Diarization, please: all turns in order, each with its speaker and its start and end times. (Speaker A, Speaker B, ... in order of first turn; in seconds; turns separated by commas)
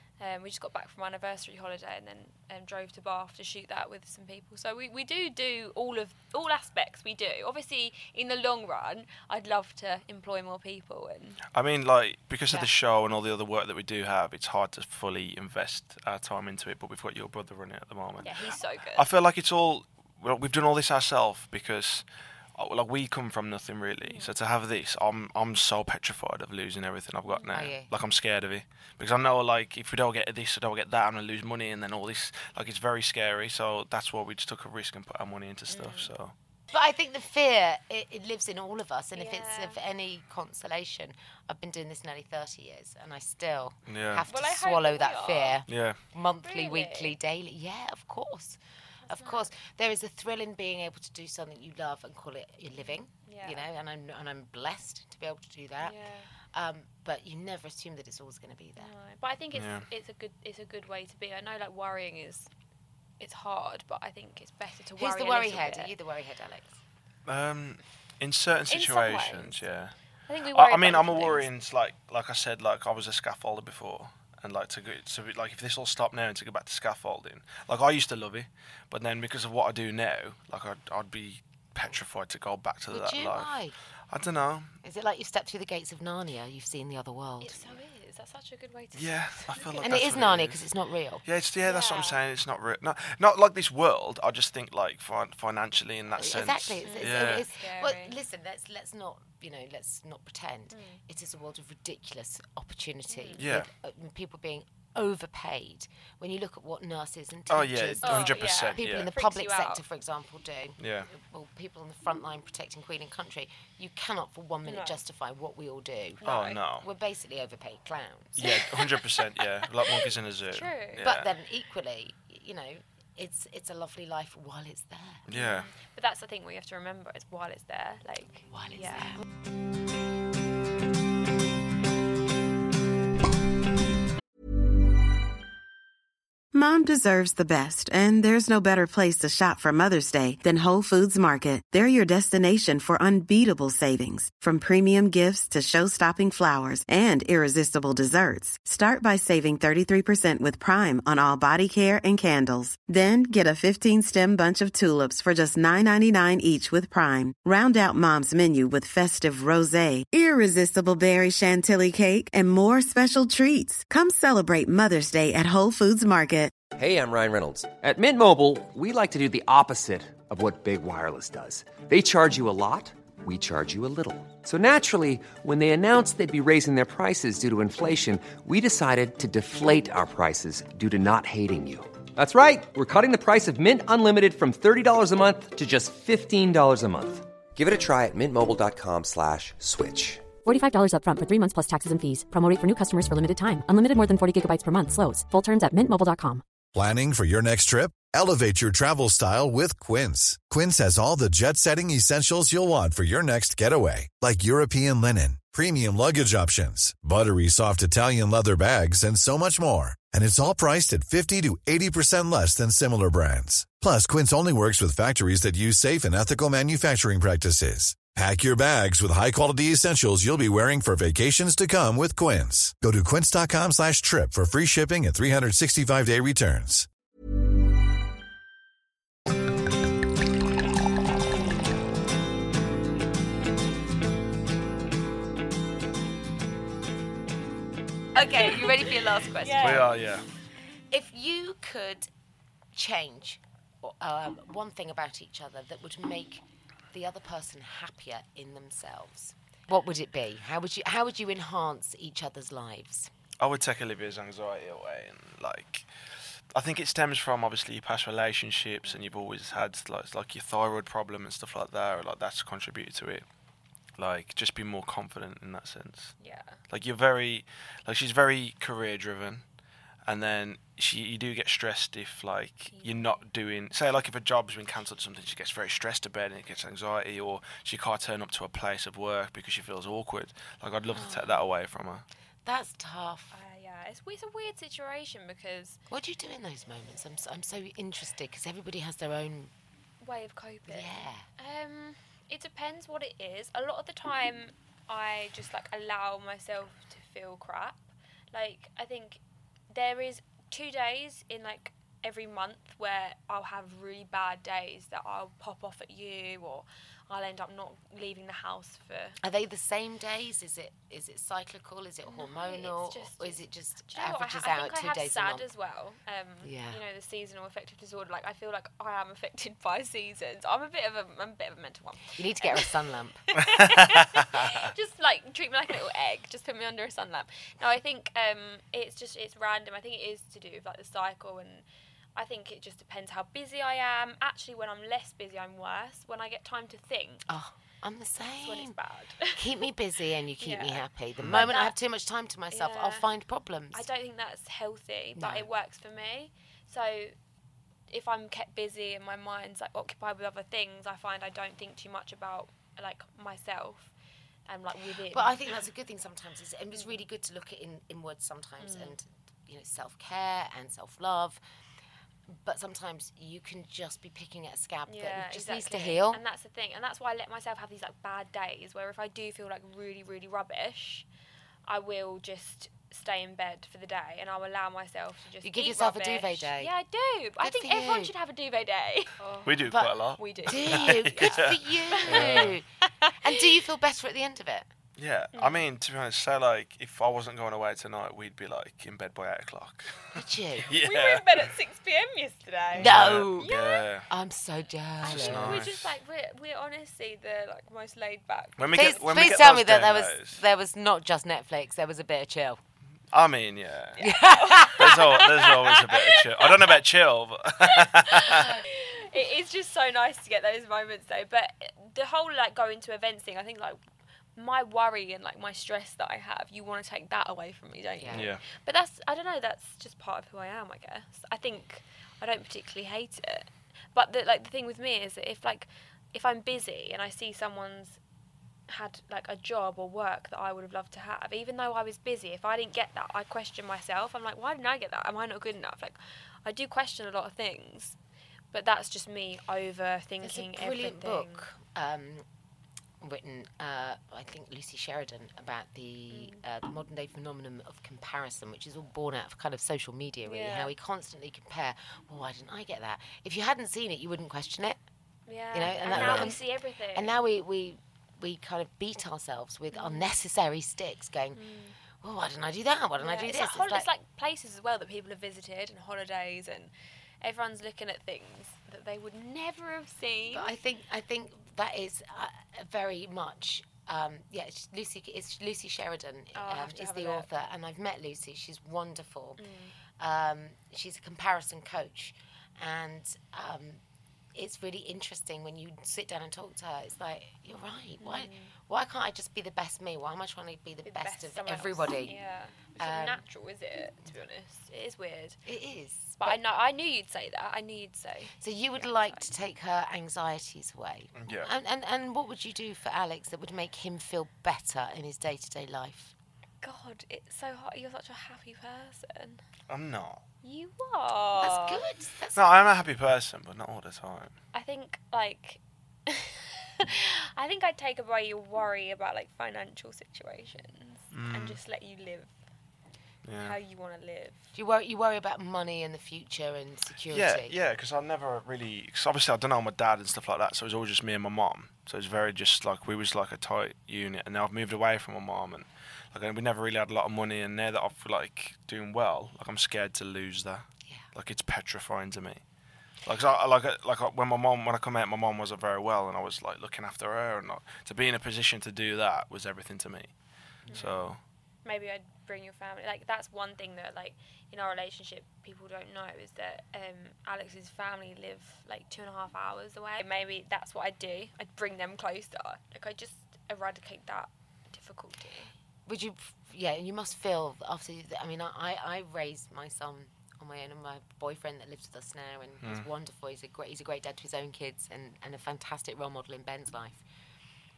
Speaker A: 0.2-11.4, Speaker B: 11.5-22.0, Speaker A: 18.2-19.1, Speaker B: 22.6-36.3, Speaker A: 24.0-24.3, Speaker A: 27.3-27.5, Speaker C: 27.5-27.9, Speaker A: 35.7-36.1, Speaker C: 36.7-56.0, Speaker A: 39.1-39.8, Speaker B: 43.9-44.2, Speaker A: 44.3-45.6, Speaker B: 45.7-46.0, Speaker A: 46.4-47.1, Speaker A: 49.1-49.5, Speaker A: 52.8-53.7, Speaker A: 55.8-56.3, Speaker C: 56.5-58.9, Speaker A: 58.8-62.5, Speaker B: 59.5-59.9, Speaker A: 63.2-65.9, Speaker C: 65.0-66.8, Speaker B: 67.2-69.9, Speaker A: 68.7-69.6, Speaker A: 70.3-71.5, Speaker B: 70.5-83.5, Speaker C: 82.9-83.7, Speaker B: 84.1-84.7, Speaker C: 84.8-87.7, Speaker A: 87.4-89.9, Speaker B: 88.9-90.6, Speaker C: 89.8-91.2, Speaker B: 91.2-97.4, Speaker A: 91.6-92.2, Speaker C: 96.2-116.2, Speaker A: 96.8-98.2, Speaker A: 100.7-101.0, Speaker A: 103.1-103.4, Speaker B: 103.4-103.7, Speaker B: 107.5-109.1, Speaker A: 108.0-109.8, Speaker B: 110.8-111.1, Speaker A: 114.6-115.0, Speaker A: 116.2-116.6, Speaker B: 116.2-116.8, Speaker C: 116.7-118.5, Speaker B: 118.4-121.3, Speaker A: 118.4-118.8, Speaker A: 119.9-121.1, Speaker C: 121.0-125.2, Speaker B: 125.3-125.7, Speaker A: 125.3-129.2, Speaker C: 128.5-129.2, Speaker D: 136.5-166.5, Speaker E: 166.8-190.3, Speaker F: 190.4-196.4, Speaker G: 196.7-226.9, Speaker C: 238.1-239.9, Speaker A: 238.1-240.0, Speaker B: 239.6-240.2, Speaker C: 240.9-242.1, Speaker C: 242.7-253.1, Speaker B: 253.4-255.9, Speaker B: 256.5-263.2, Speaker B: 264.0-266.1, Speaker A: 266.2-266.6, Speaker B: 266.7-269.4, Speaker B: 270.1-282.0, Speaker A: 272.7-273.2, Speaker C: 280.9-281.4, Speaker C: 282.4-283.3, Speaker A: 283.3-285.8, Speaker C: 285.9-289.5, Speaker A: 290.0-309.2, Speaker C: 290.6-291.3, Speaker C: 309.2-315.5, Speaker A: 312.1-322.7, Speaker C: 316.4-316.8, Speaker C: 322.1-323.3, Speaker A: 323.3-331.6, Speaker A: 332.1-337.2, Speaker C: 337.3-338.8, Speaker A: 338.4-339.6, Speaker C: 339.3-343.9, Speaker A: 340.4-341.7, Speaker B: 341.2-341.4, Speaker A: 342.5-343.1, Speaker A: 343.7-347.1, Speaker C: 345.1-345.5, Speaker A: 347.9-353.9, Speaker A: 354.5-355.4, Speaker C: 354.8-361.4, Speaker A: 358.6-358.9, Speaker C: 362.3-366.2, Speaker A: 364.9-371.1, Speaker A: 371.6-383.2, Speaker C: 375.4-376.7, Speaker C: 377.4-378.1, Speaker B: 379.4-382.6, Speaker C: 379.6-384.7, Speaker B: 385.0-391.5, Speaker A: 385.3-385.6, Speaker C: 390.1-390.7, Speaker A: 390.8-393.9, Speaker C: 392.7-393.5, Speaker B: 392.7-394.1, Speaker C: 394.1-395.6, Speaker B: 395.0-395.9, Speaker A: 395.0-399.4, Speaker B: 398.6-400.4, Speaker C: 398.7-402.6, Speaker B: 403.1-404.0, Speaker A: 404.0-406.8, Speaker C: 404.0-405.3, Speaker B: 404.7-408.5, Speaker A: 407.6-413.8, Speaker A: 414.4-428.0, Speaker C: 418.0-418.3, Speaker B: 418.1-418.4, Speaker A: 428.7-438.0, Speaker A: 438.5-441.5, Speaker C: 440.2-442.2, Speaker C: 443.0-454.8, Speaker A: 446.1-446.4, Speaker A: 450.2-450.7, Speaker A: 455.3-457.2, Speaker C: 455.5-463.9, Speaker B: 455.9-456.3, Speaker A: 459.7-460.1, Speaker A: 461.3-461.8, Speaker A: 463.0-470.5, Speaker C: 470.3-479.4, Speaker A: 476.3-477.3, Speaker A: 479.4-479.7, Speaker C: 480.0-483.8, Speaker C: 484.3-492.2, Speaker A: 488.0-488.5, Speaker A: 490.8-495.4, Speaker C: 492.8-493.2, Speaker C: 495.4-496.4, Speaker A: 496.2-499.2, Speaker C: 498.4-506.1, Speaker B: 501.2-501.5, Speaker A: 506.6-509.4, Speaker B: 509.7-510.2, Speaker A: 510.4-511.8, Speaker C: 511.4-512.5, Speaker B: 512.3-514.3, Speaker A: 514.5-522.3, Speaker B: 521.1-521.6, Speaker B: 523.2-523.5, Speaker A: 523.4-524.5, Speaker C: 524.5-527.5, Speaker B: 527.1-542.4, Speaker B: 543.0-550.1, Speaker C: 550.6-550.9, Speaker A: 550.7-551.0, Speaker B: 550.7-551.2, Speaker A: 551.6-565.5, Speaker C: 565.9-577.0